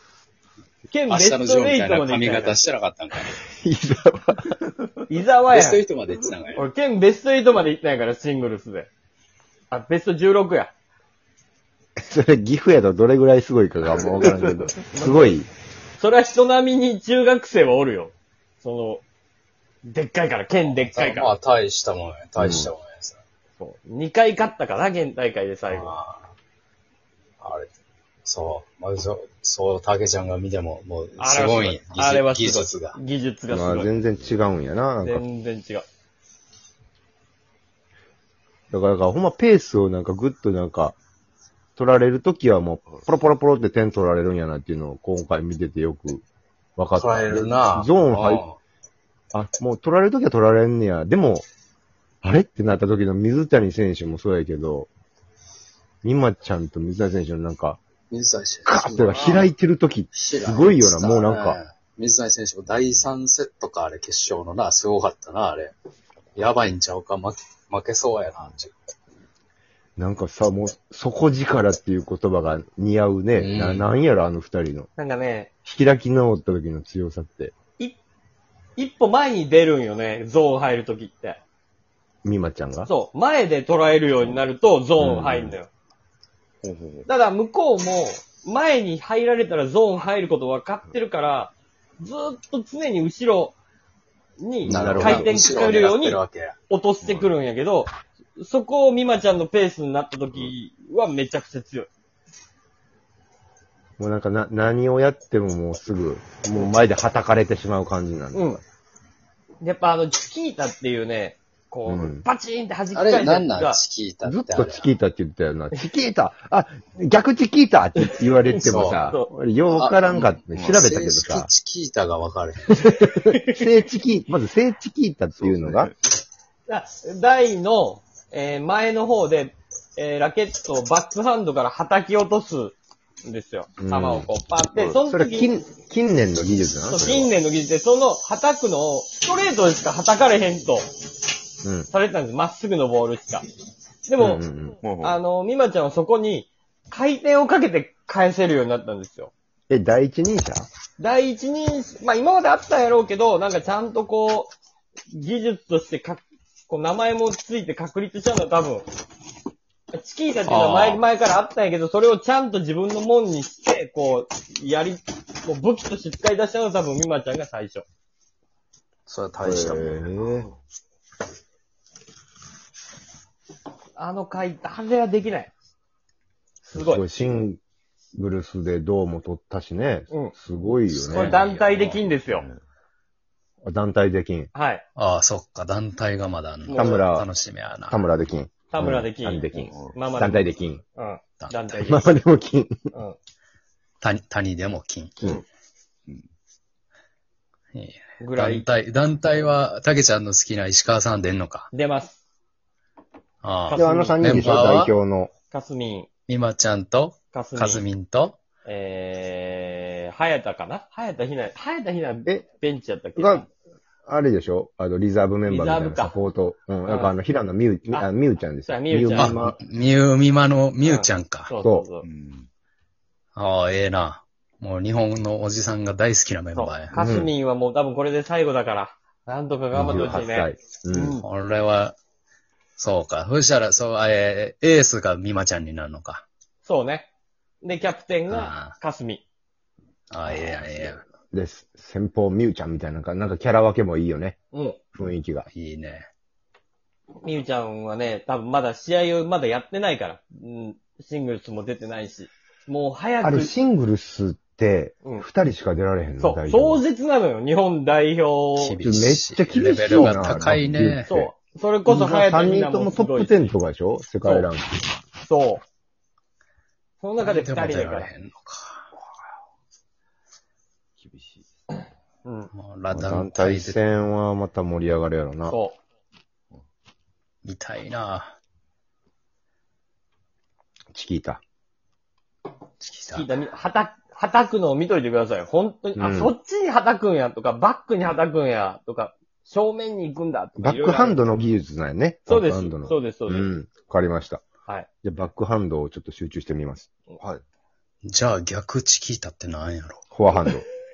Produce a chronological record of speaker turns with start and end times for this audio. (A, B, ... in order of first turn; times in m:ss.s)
0:00.9-0:02.6 A
0:01.1-0:03.4 B
0:03.3-0:04.6 C
0:05.1-0:05.8 A
0:05.5-0:06.6 B
0:06.5-0:08.9 A
0:09.7-0:10.7 A
0:12.0-0:15.5 C
0:14.9-0:15.3 A
0:16.0-0:19.0 A
0:19.8-0:21.3 A
0:20.9-0:23.2 B
0:22.4-0:22.7 C
0:23.6-0:25.9 A
0:25.7-0:26.3 B
0:27.4-0:27.7 B
0:28.2-0:33.0 B
0:31.2-0:33.9 A
0:33.5-0:35.2 C
0:35.0-0:35.8 A
0:38.7-0:41.0 C
0:41.8-0:46.2 C
0:46.8-0:48.4 C
0:46.9-0:48.6 B
0:49.3-0:51.4 C
0:52.2-0:54.9 C
0:56.0-0:57.8 C
0:58.1-0:59.5 B
0:58.6-1:01.6 C
0:59.1-0:59.4 A
1:00.1-1:05.7 B
1:06.3-1:08.7 B
1:10.0-1:14.9 C
1:13.4-1:13.8 B
1:15.0-1:15.5 A
1:15.6-1:17.5 C
1:18.8-1:21.4 A
1:22.2-1:22.9 C
1:22.8-1:25.7 A
1:25.0-1:25.6 C
1:26.6-1:27.1 D
1:27.1-1:33.6 A
1:34.4-1:41.9 A
1:34.6-1:35.4 C
1:34.7-1:36.6 B
1:37.0-1:37.3 D
1:44.0-1:48.6 C
1:48.3-1:48.6 A
1:49.6-1:53.8 A
1:51.8-1:52.2 C
1:52.9-1:54.8 B
1:54.2-2:01.5 C
1:58.0-1:59.3 A
1:58.6-1:59.1 B
1:59.7-2:02.8 B
2:00.5-2:00.8 D
2:02.9-2:03.6 A
2:03.1-2:05.9 C
2:05.3-2:05.9 D
2:06.7-2:15.5 A
2:13.8-2:17.3 C
2:16.9-2:20.8 A
2:21.9-2:23.4 A
2:24.0-2:24.4 A
2:24.2-2:24.8 C
2:24.8-2:25.2 D
2:25.0-2:29.3 A
2:29.7-2:30.6 C
2:31.0-2:34.5 A
2:35.1-2:38.8 A
2:39.9-2:47.8 A
2:40.4-2:41.0 B
2:49.1-2:50.2 B
2:49.4-2:50.5 C
2:54.0-2:55.5 A
2:56.7-2:57.4 A
2:56.7-2:57.6 C
2:58.2-3:01.4 C
3:00.9-3:02.0 B
3:01.1-3:02.5 A
3:01.8-3:02.6 D
3:03.6-3:04.5 C
3:04.5-3:04.8 A
3:05.0-3:08.0 B
3:06.7-3:07.0 A
3:06.7-3:07.3 C
3:07.9-3:10.8 C
3:08.7-3:12.1 A
3:09.5-3:10.0 D
3:11.4-3:12.0 B
3:11.8-3:12.9 C
3:14.0-3:15.2 B
3:17.7-3:21.7 B
3:18.2-3:18.7 A
3:21.7-3:22.2 A
3:23.4-3:24.9 B
3:23.7-3:24.2 A
3:23.7-3:25.3 C
3:25.5-3:26.1 A
3:26.3-3:28.4 B
3:27.3-3:27.9 A
3:28.6-3:33.5 A
3:33.2-3:33.4 C
3:34.0-3:39.6 C
3:35.5-3:36.2 A
3:36.8-3:37.1 A
3:38.6-3:39.4 A
3:39.2-3:41.5 B
3:40.8-3:42.0 A
3:41.6-3:41.8 C
3:42.0-3:42.5 D
3:43.4-3:46.9 B
3:46.5-3:51.2 A
3:46.9-3:47.3 C
3:49.7-3:51.2 C
3:49.8-3:50.1 B
3:51.2-3:52.0 B
3:52.8-3:56.2 B
3:56.6-3:57.1 A
3:57.6-3:59.2 A
3:58.3-3:58.8 B
4:00.1-4:01.0 B
4:01.3-4:04.4 C
4:04.5-4:04.8 A
4:04.9-4:05.5 C
4:05.5-4:06.1 B
4:07.2-4:13.5 A
4:13.2-4:16.8 C
4:16.2-4:18.8 A
4:18.6-4:21.1 B
4:18.8-4:21.3 C
4:21.1-4:23.5 A
4:21.8-4:24.8 C
4:24.2-4:24.5 A
4:25.2-4:25.6 A
4:27.0-4:28.1 A
4:27.2-4:28.9 B
4:31.0-4:31.5 D
4:32.2-4:32.5 A
4:32.5-4:33.8 B
4:32.9-4:35.6 C
4:35.5-4:35.8 A
4:37.4-4:38.3 B
4:40.9-4:41.4 C
4:42.8-4:43.3 B
4:43.1-4:51.2 A
4:46.0-4:46.4 C
4:50.6-4:54.4 C
4:52.3-4:53.5 A
4:55.0-4:56.9 C
4:58.0-5:00.0 B
5:00.1-5:00.7 C